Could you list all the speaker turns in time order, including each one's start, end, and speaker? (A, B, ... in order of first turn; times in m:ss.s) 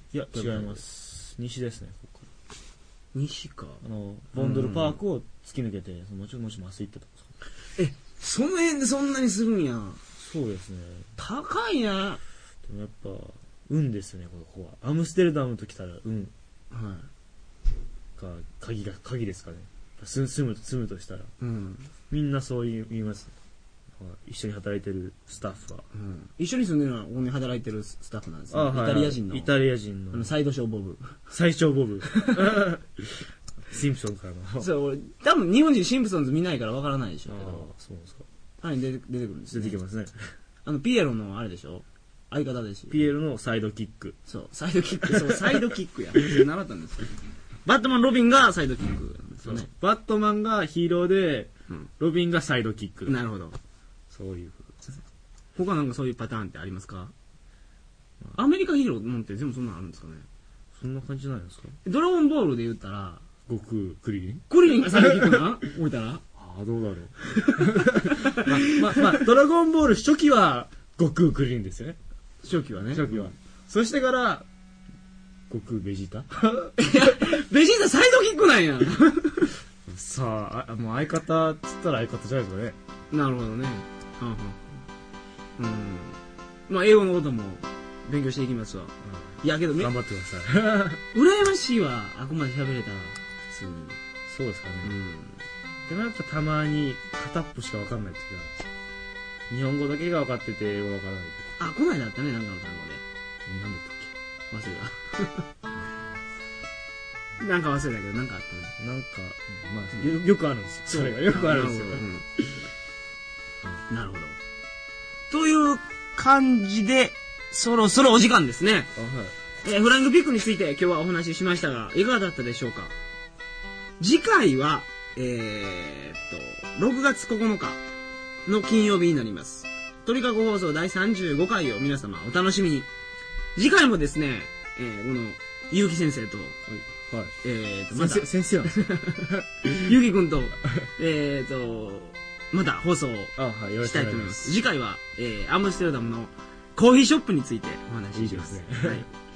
0:00.1-0:02.3 A
0:00.3-0:00.8 B
0:03.1-0:03.8 B
0:03.8-0:07.3 A
0:04.3-0:05.0 B
0:07.8-0:10.0 B
0:10.2-0:11.1 A
0:11.2-0:12.2 B
0:12.7-0:16.3 A
0:16.7-0:17.1 B
0:18.2-0:21.3 A
0:21.4-0:21.9 B
0:22.1-0:23.3 A
0:24.0-0:25.9 A
0:25.9-0:29.5 B
0:28.5-0:30.3 A
0:30.1-0:31.2 B
0:31.3-0:34.7 A
0:32.1-0:32.6 B
0:34.6-0:37.7 B
0:37.3-0:38.2 A
0:38.6-0:39.8 B
0:39.5-0:40.3 A
0:40.6-0:43.0 B
0:42.9-0:44.2 A
0:44.3-0:49.7 B
0:45.0-0:46.4 A
0:49.4-0:53.2 A
0:53.1-0:53.6 B
0:54.1-0:54.9 A
0:55.6-0:57.1 B
0:58.3-1:00.3 B
1:00.8-1:01.8 A
1:01.8-1:03.2 B
1:03.5-1:05.4 A
1:04.5-1:06.2 B
1:06.4-1:12.0 A
1:07.3-1:09.1 B
1:12.4-1:13.3 B
1:12.8-1:14.5 A
1:15.5-1:17.3 A
1:16.8-1:19.5 B
1:19.9-1:22.8 A
1:23.1-1:24.8 B
1:25.6-1:29.9 B
1:29.0-1:31.0 A
1:31.1-1:34.0 B
1:34.3-1:34.9 A
1:34.8-1:35.4 B
1:35.9-1:38.5 A
1:39.5-1:41.5 A
1:41.6-1:43.0 B
1:43.5-1:44.1 A
1:44.5-1:45.5 B
1:47.4-1:48.8 B
1:48.8-1:52.6 A
1:50.9-1:52.3 B
1:53.9-1:54.4 B
1:55.3-1:58.9 B
1:59.0-1:59.4 A
1:59.6-2:02.9 B
2:04.0-2:07.8 B
2:08.5-2:12.9 B
2:13.6-2:16.6 B
2:16.7-2:17.4 A
2:17.4-2:29.1 B
2:17.9-2:20.0 A
2:23.4-2:24.6 A
2:28.1-2:29.1 A